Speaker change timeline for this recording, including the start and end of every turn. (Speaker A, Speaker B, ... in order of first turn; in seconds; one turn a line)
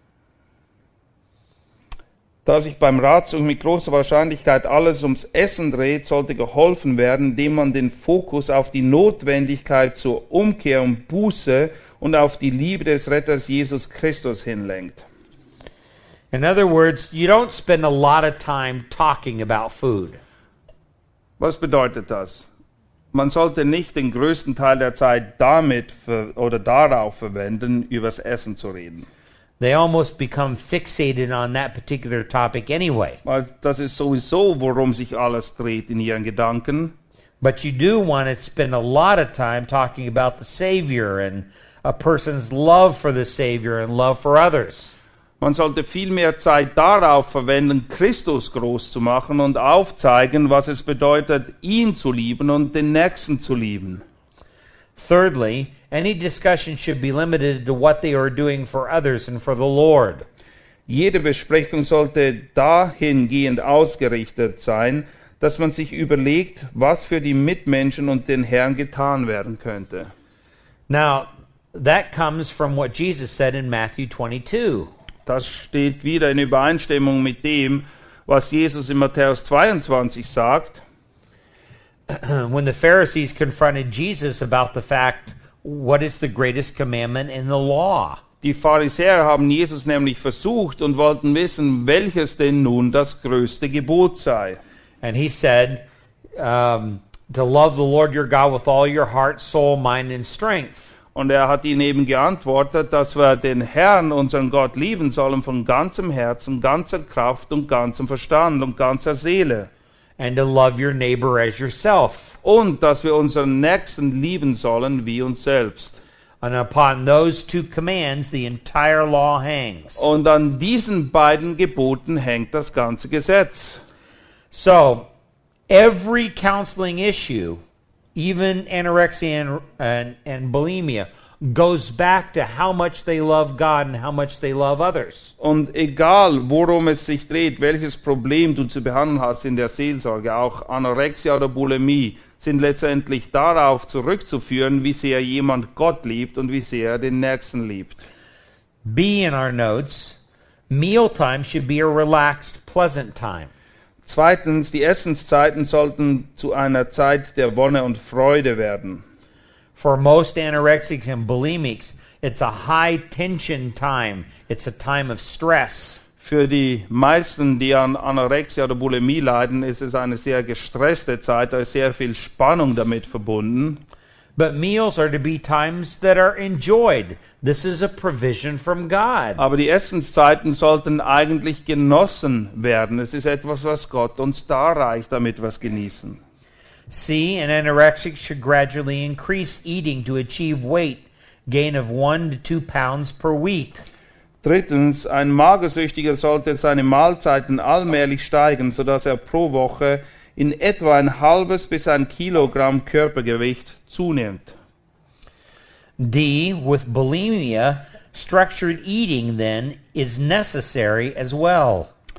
Speaker A: 2.5-15.0
Speaker B: 16.3-20.2
Speaker A: 21.4-22.5
Speaker A: 23.1-29.1
Speaker B: 29.6-33.2
Speaker A: 33.2-36.9
Speaker B: 37.4-44.9
Speaker A: 45.4-54.0
Speaker B: 55.0-60.3
Speaker A: 60.9-70.1
Speaker B: 70.9-74.9
Speaker A: 75.3-80.8
Speaker B: 82.1-88.2
Speaker A: 88.4-94.6
Speaker B: 95.0-95.8
Speaker B: 96.4-100.9
Speaker A: 101.1-109.7
Speaker B: 110.2-112.4
Speaker A: 112.4-116.0
Speaker B: 116.4-120.0
Speaker A: 120.0-123.8
Speaker B: 124.5-125.1
Speaker B: 125.7-127.6
Speaker B: 128.2-135.3
Speaker A: 135.4-148.0
Speaker B: 148.8-150.2
Speaker B: 150.7-153.5
Speaker A: 154.1-159.0
Speaker B: 159.8-166.0
Speaker A: 166.2-173.8
Speaker B: 174.4-179.4
Speaker A: 179.4-186.2
Speaker B: 186.9-193.8
Speaker A: 194.4-204.5
Speaker B: 206.0-211.9